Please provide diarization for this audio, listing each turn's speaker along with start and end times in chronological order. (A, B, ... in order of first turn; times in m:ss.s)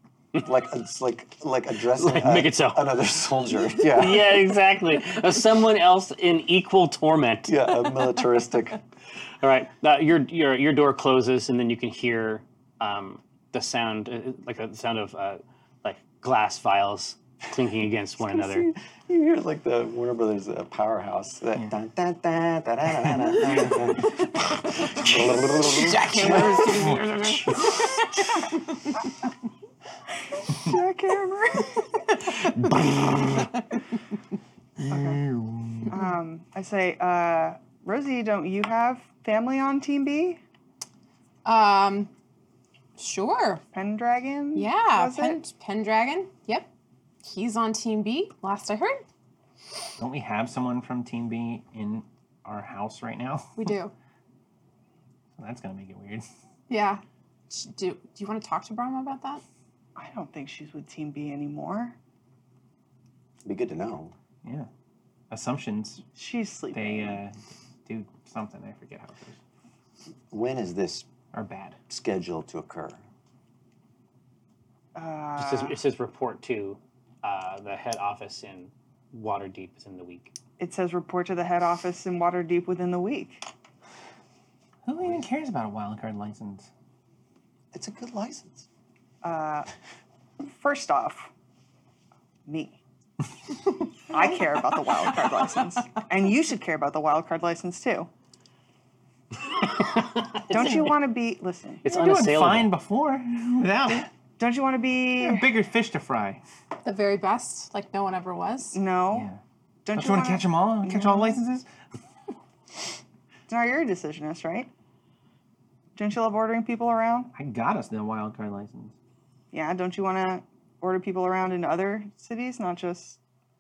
0:00.4-0:04.4 A
0:01.9-0:02.9 B
0:03.7-0:07.7 B
0:07.5-0:08.8 A
0:09.4-0:18.7 B
0:19.1-0:24.3 A
0:24.8-0:26.7 A
0:25.6-0:28.3 C
0:26.8-0:27.1 D
0:30.4-0:32.1 E
0:32.6-0:33.5 B
0:34.8-0:35.9 D
0:34.9-0:35.2 E
0:35.9-0:40.4 E
0:41.4-0:42.1 C
0:43.0-0:43.6 C
0:43.7-0:45.4 E
0:44.5-0:46.7 C
0:47.2-0:49.0 C
0:50.0-0:53.6 D
0:53.6-0:53.9 C
0:55.4-0:56.2 D
0:56.7-0:59.4 C
1:00.0-1:02.0 E
1:03.4-1:04.1 A
1:05.3-1:06.0 D
1:06.1-1:07.2 E
1:06.7-1:09.4 D
1:10.3-1:11.1 A
1:11.3-1:11.8 D
1:11.9-1:13.0 A
1:14.9-1:15.8 E
1:15.4-1:20.3 B
1:20.6-1:23.4 E
1:24.8-1:26.7 D
1:27.7-1:28.6 A
1:29.2-1:29.7 E
1:30.4-1:31.3 E
1:32.4-1:32.8 E
1:34.1-1:38.1 E
1:39.8-1:40.9 B
1:40.5-1:41.8 E
1:41.8-1:42.7 B
1:41.9-1:44.1 D
1:44.4-1:45.5 E
1:45.2-1:46.4 D
1:46.8-1:48.8 C
1:48.7-1:49.3 E
1:49.1-1:49.4 D
1:49.8-1:51.4 E
1:49.9-1:51.6 D
1:53.5-1:54.7 E
1:56.0-1:57.3 E
1:57.3-1:58.9 D
1:59.5-2:03.2 E